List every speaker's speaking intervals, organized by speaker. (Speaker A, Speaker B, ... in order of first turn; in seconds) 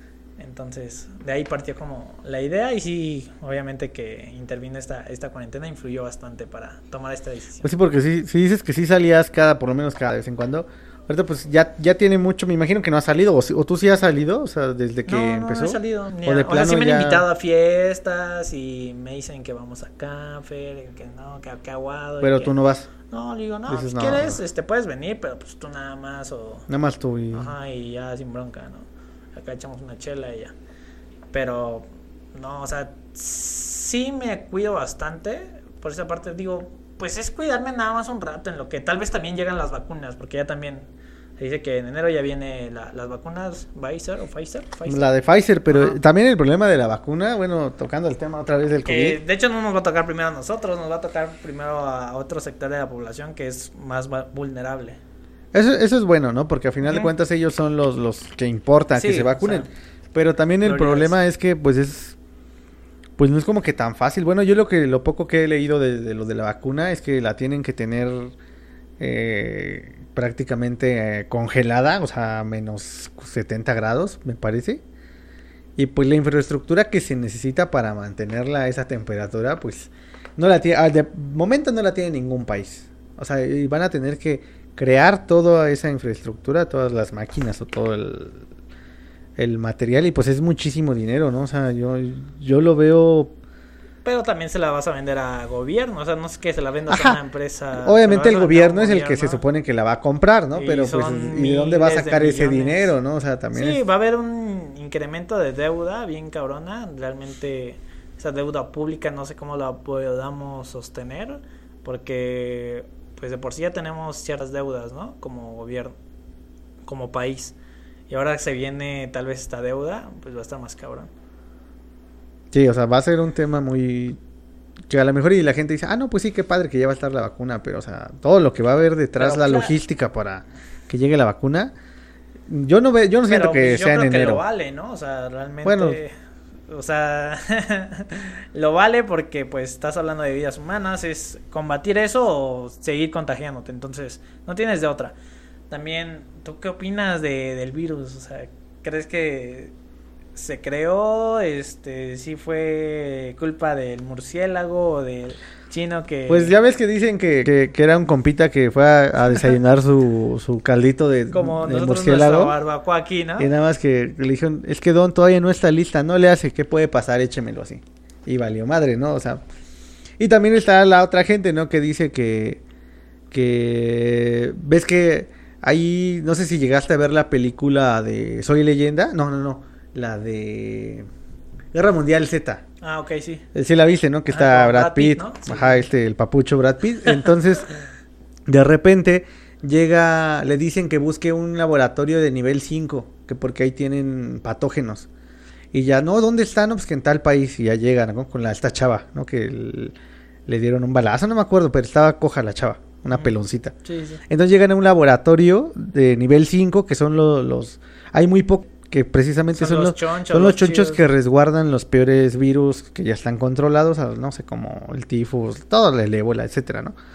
Speaker A: 0.4-7.7, 15.1-22.6, 23.1-26.7, 27.3-30.5, 31.3-40.9, 41.4-45.0, 45.7-46.0, 48.8-55.0, 56.8-57.1, 58.9-59.7, 60.6-61.1, 94.0-99.4, 100.5-102.9, 103.5-115.9, 116.8-117.5, 118.1-121.1, 129.2-129.8, 133.2-136.1, 136.7-145.1, 145.7-149.7, 150.3-156.5, 161.3-163.5, 182.8-183.4, 184.3-185.9, 203.8-204.2, 209.5-211.0
Speaker B: 7.6-17.2, 22.2-22.9, 23.7-24.4, 26.7-27.5, 44.9-49.2, 55.5-62.2, 63.2-68.3, 69.0-74.8, 75.8-88.4, 89.4-93.3, 96.9-97.2, 97.8-103.8, 122.5-124.2, 124.9-131.7, 132.5-134.4, 135.6-136.0, 156.3-162.5, 163.4-169.4, 170.2-172.6, 173.3-181.1, 181.7-182.6, 183.5-187.7, 188.5-195.1, 195.7-199.9, 200.5-203.7, 204.3-216.9